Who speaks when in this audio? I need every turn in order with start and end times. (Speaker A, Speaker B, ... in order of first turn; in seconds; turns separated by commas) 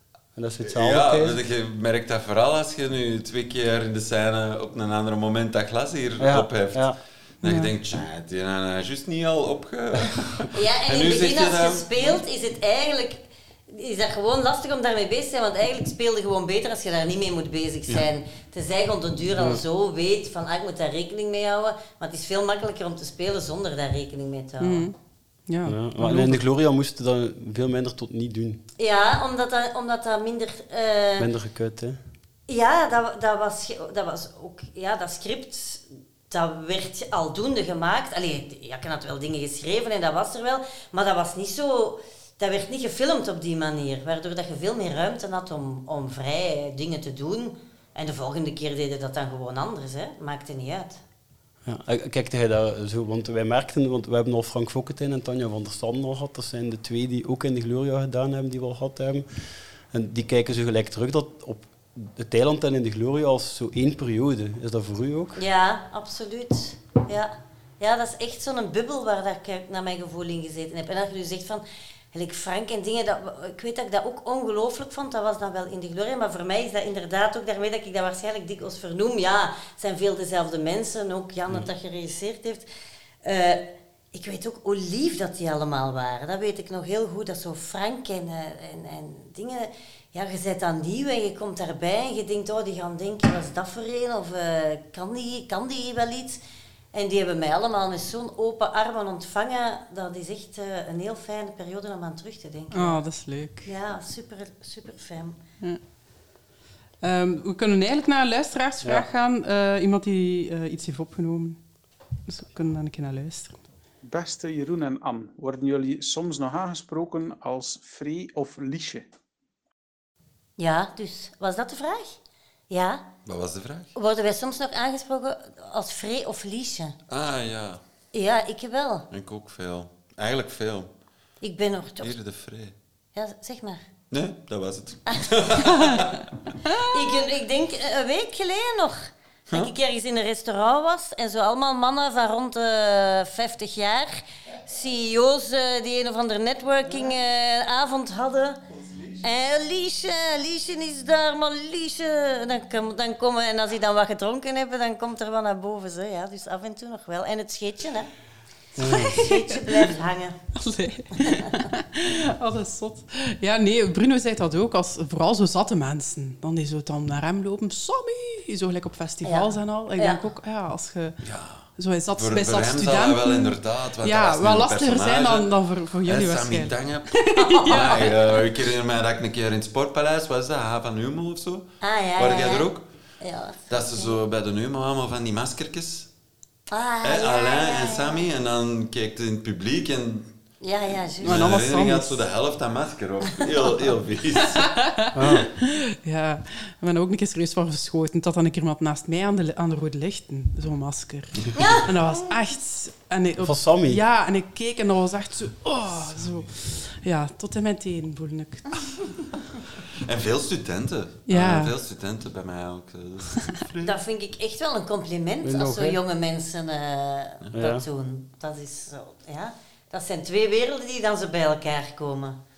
Speaker A: 0.3-1.4, Speaker B: 0.6-12.2, Speaker A: 6.2-7.0, Speaker C: 7.4-7.7, Speaker D: 10.5-24.9, Speaker A: 19.3-19.6, Speaker C: 24.6-24.9, Speaker C: 25.5-26.4, Speaker A: 25.6-28.6, Speaker D: 28.8-31.3, Speaker A: 31.2-32.0, Speaker D: 32.5-51.0, Speaker A: 51.6-59.2, Speaker A: 59.9-65.4, Speaker D: 65.3-82.7, Speaker D: 83.2-96.4, Speaker D: 96.9-103.0, Speaker C: 102.7-103.7, Speaker D: 103.6-105.4, Speaker C: 107.0-111.6, Speaker A: 108.8-109.1, Speaker C: 112.3-113.5, Speaker E: 114.0-119.0, Speaker D: 120.6-122.2, Speaker D: 122.7-123.0, Speaker B: 123.2-123.9, Speaker D: 123.9-127.0, Speaker B: 127.1-127.8, Speaker D: 128.1-129.1, Speaker B: 129.1-130.9, Speaker D: 131.4-132.1, Speaker B: 132.0-132.7, Speaker D: 133.1-133.8, Speaker B: 134.1-136.2, Speaker D: 136.8-148.6, Speaker D: 149.2-158.1, Speaker A: 158.8-159.2, Speaker C: 158.8-159.9, Speaker D: 159.1-160.4, Speaker C: 160.5-171.2, Speaker D: 169.2-170.2, Speaker B: 171.2-175.5, Speaker C: 171.8-178.2, Speaker B: 176.0-182.8, Speaker D: 177.4-177.7, Speaker D: 181.8-182.7, Speaker D: 183.2-184.1, Speaker B: 183.7-186.1, Speaker D: 186.7-188.2, Speaker B: 187.0-190.3, Speaker D: 190.6-191.4, Speaker B: 191.2-194.7, Speaker C: 191.2-192.2, Speaker C: 194.6-208.6, Speaker A: 195.1-195.5, Speaker D: 201.6-201.9, Speaker A: 203.4-204.0, Speaker B: 210.0-213.9, Speaker C: 211.3-211.7, Speaker D: 213.8-222.4, Speaker A: 215.4-216.0, Speaker A: 217.5-217.8